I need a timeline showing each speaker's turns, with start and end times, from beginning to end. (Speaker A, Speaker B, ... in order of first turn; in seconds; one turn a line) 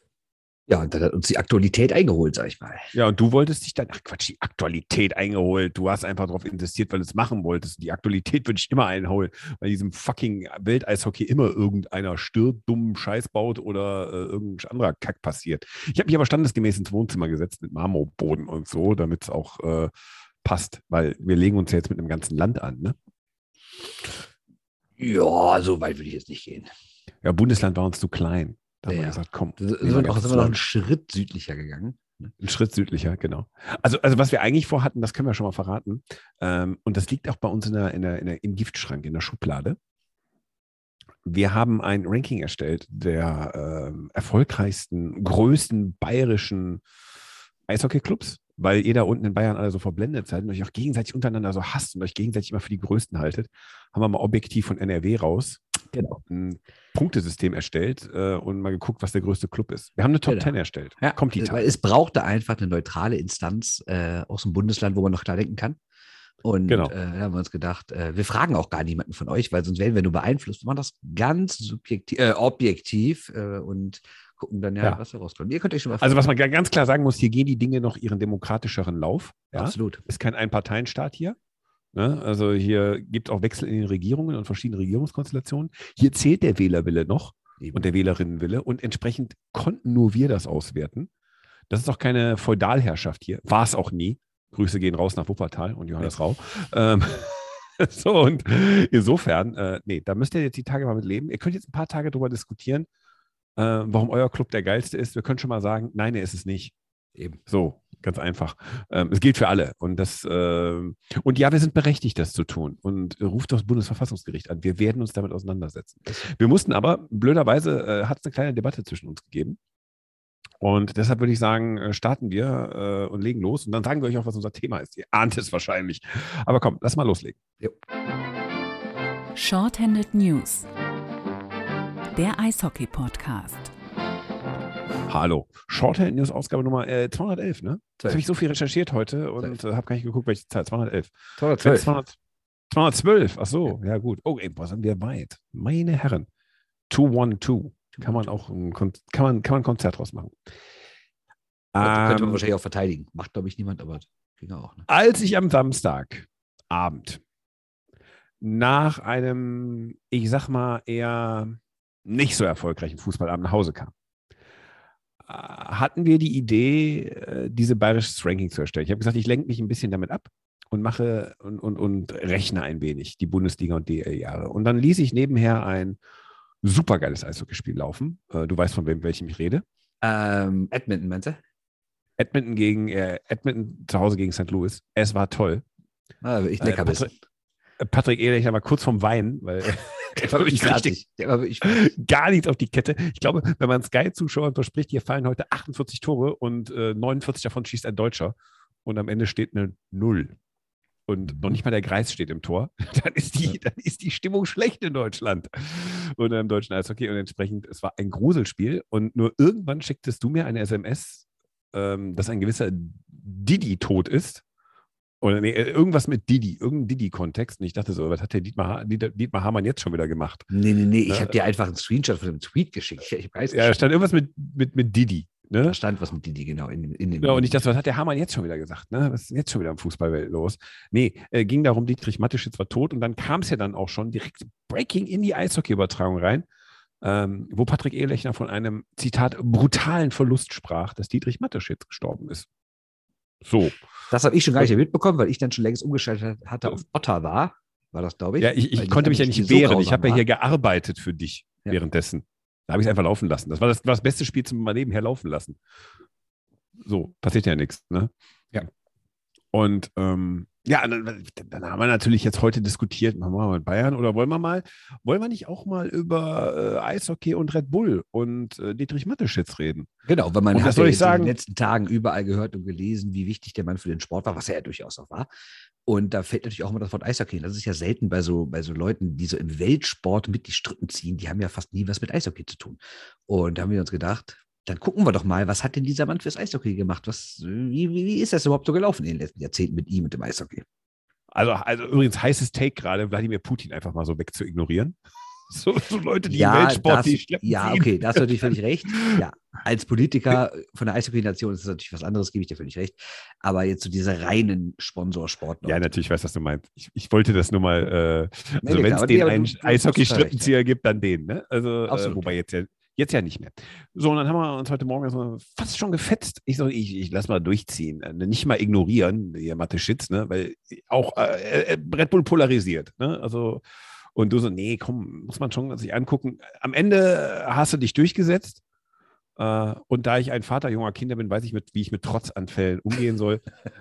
Speaker A: 0.7-2.9
Speaker B: 2.9-19.9
Speaker B: 20.4-22.9
Speaker A: 25.0-26.7
Speaker B: 27.2-30.6
Speaker A: 28.9-32.3
Speaker B: 32.4-39.8
Speaker B: 41.2-46.8
Speaker B: 47.7-55.6
Speaker A: 55.9-56.2
Speaker B: 56.3-61.7
Speaker A: 60.3-65.8
Speaker A: 66.4-76.2
Speaker B: 66.7-66.9
Speaker B: 76.0-81.4
Speaker A: 79.5-80.0
Speaker B: 81.9-91.1
Speaker B: 91.7-102.9
Speaker B: 103.5-106.7
Speaker B: 107.5-119.6
Speaker B: 120.6-127.5
Speaker C: 129.3-130.7
Speaker C: 132.1-133.7
Speaker B: 135.1-142.2
Speaker A: 141.4-141.9
Speaker B: 142.7-146.3
Speaker B: 146.9-150.3
Speaker B: 151.7-152.4
Speaker A: 151.8-154.8
Speaker B: 154.9-157.2
Speaker B: 158.4-163.9
Speaker B: 165.3-176.0
Speaker B: 176.6-179.6
Speaker A: 180.0-181.4
Speaker B: 182.2-185.6
Speaker A: 186.2-187.1
Speaker B: 186.6-187.1
Speaker B: 187.8-191.0
Speaker A: 190.1-191.8
Speaker B: 191.6-200.3
Speaker B: 201.1-214.4
Speaker B: 215.2-220.5
Speaker A: 220.5-223.8
Speaker B: 221.1-221.3
Speaker B: 223.5-225.8
Speaker A: 225.7-227.6
Speaker B: 227.2-236.4
Speaker B: 237.0-242.5
Speaker B: 243.4-243.8
Speaker A: 244.1-250.2
Speaker B: 248.4-255.6
Speaker B: 256.8-258.1
Speaker B: 259.5-269.9
Speaker A: 270.0-275.3
Speaker B: 270.5-271.3
Speaker A: 275.9-290.6
Speaker B: 291.3-294.9
Speaker B: 295.5-299.2
Speaker A: 296.3-305.8
Speaker B: 305.6-323.6
Speaker A: 308.6-310.5
Speaker A: 311.9-312.3
Speaker B: 324.1-328.6
Speaker B: 329.4-333.4